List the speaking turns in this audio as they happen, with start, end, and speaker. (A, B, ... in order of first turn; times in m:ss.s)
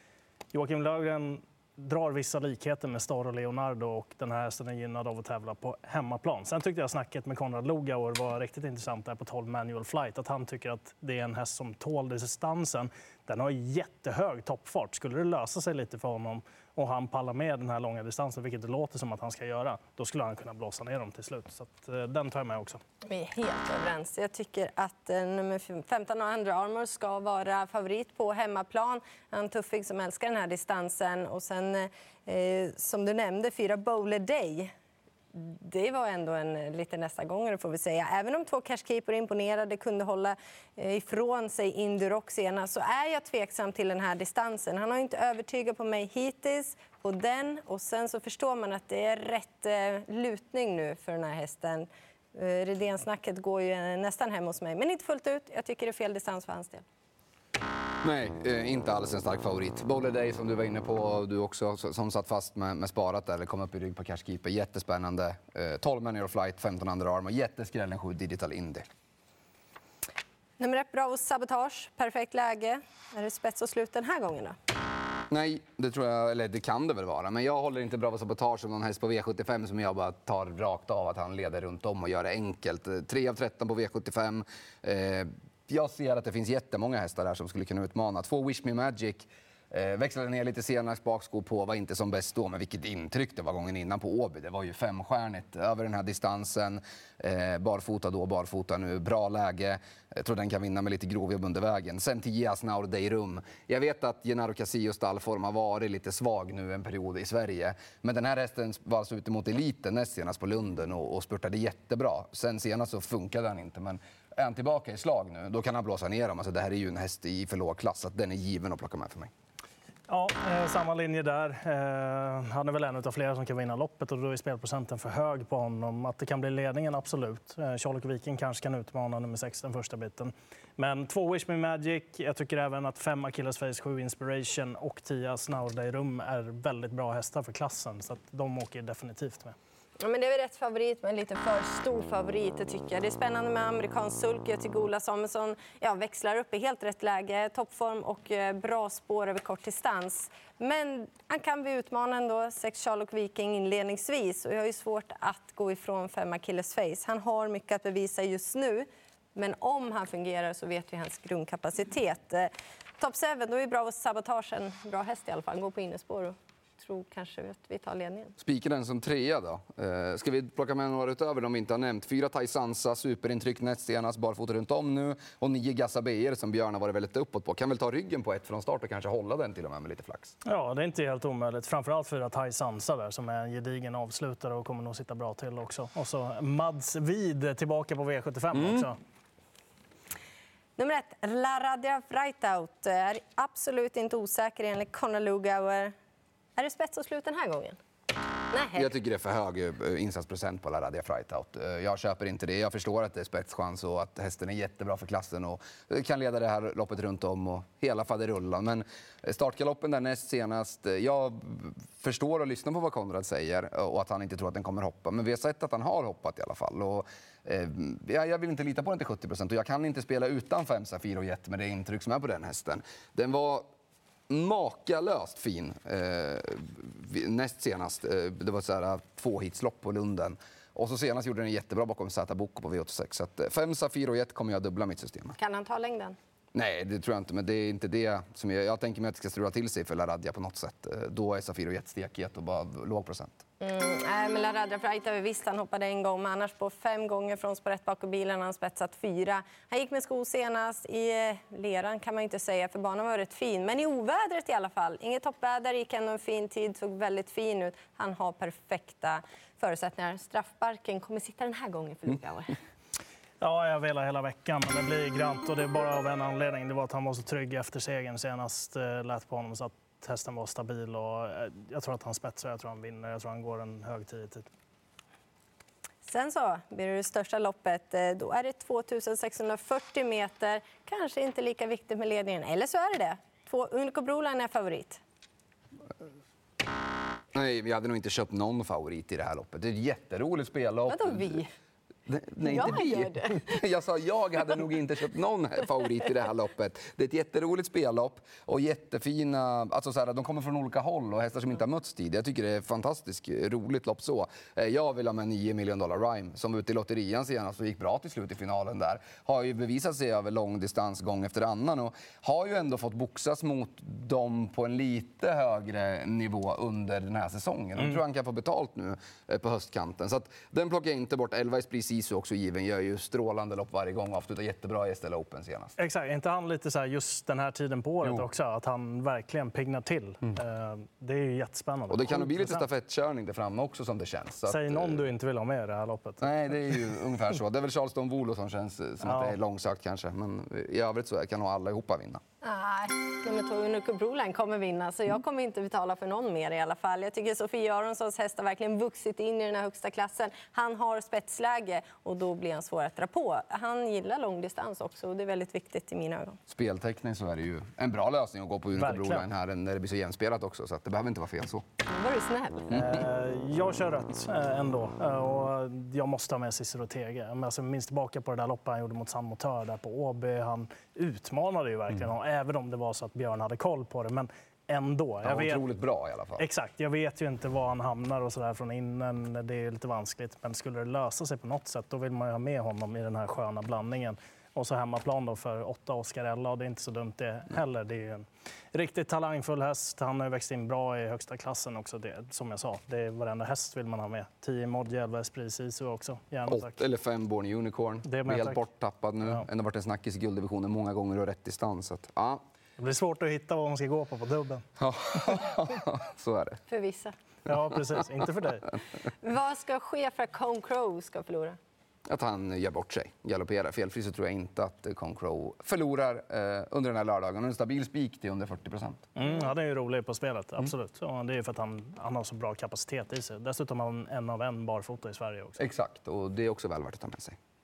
0:00.5-0:22.8 A
0:23.0-0:34.7 B
0:35.3-0:56.8 B
0:58.0-1:08.8 C
1:10.6-1:14.6 B
1:15.3-1:59.3 C
2:00.1-2:19.6 A
2:20.0-2:48.4 B
2:48.4-3:00.4 C
3:00.5-3:09.0 A
3:08.6-3:08.9 C
3:10.8-3:15.9 B
3:16.6-3:17.8 B
3:18.5-3:18.9 B
3:18.7-3:43.7 C
3:44.3-3:55.4 C
3:55.4-3:56.2 B
3:56.5-4:03.4 C
4:03.6-4:22.6 B
4:23.4-4:34.5 A
4:36.0-4:45.0 B
4:47.3-4:51.4 C
4:50.9-4:51.5 B
4:52.1-5:25.7 C
4:52.4-4:53.6 B
5:25.8-5:32.7 A
5:31.9-5:35.0 C
5:34.5-5:36.9 A
5:36.2-5:42.2 C
5:39.0-5:39.4 A
5:42.4-5:56.4 B
5:56.5-6:01.6 C
5:58.8-5:59.3 A
6:01.9-6:02.8 B
6:02.7-6:15.6 A
6:15.2-6:16.5 C
6:16.4-6:36.8 A
6:36.5-6:42.4 C
6:38.0-6:38.6 A
6:42.8-6:44.6 A
6:44.8-6:46.6 C
6:46.7-6:47.2 B
6:47.5-6:48.7 A
6:49.1-6:51.6 B
6:52.1-6:59.0 C
6:59.2-7:05.6 A
7:05.6-7:07.4 C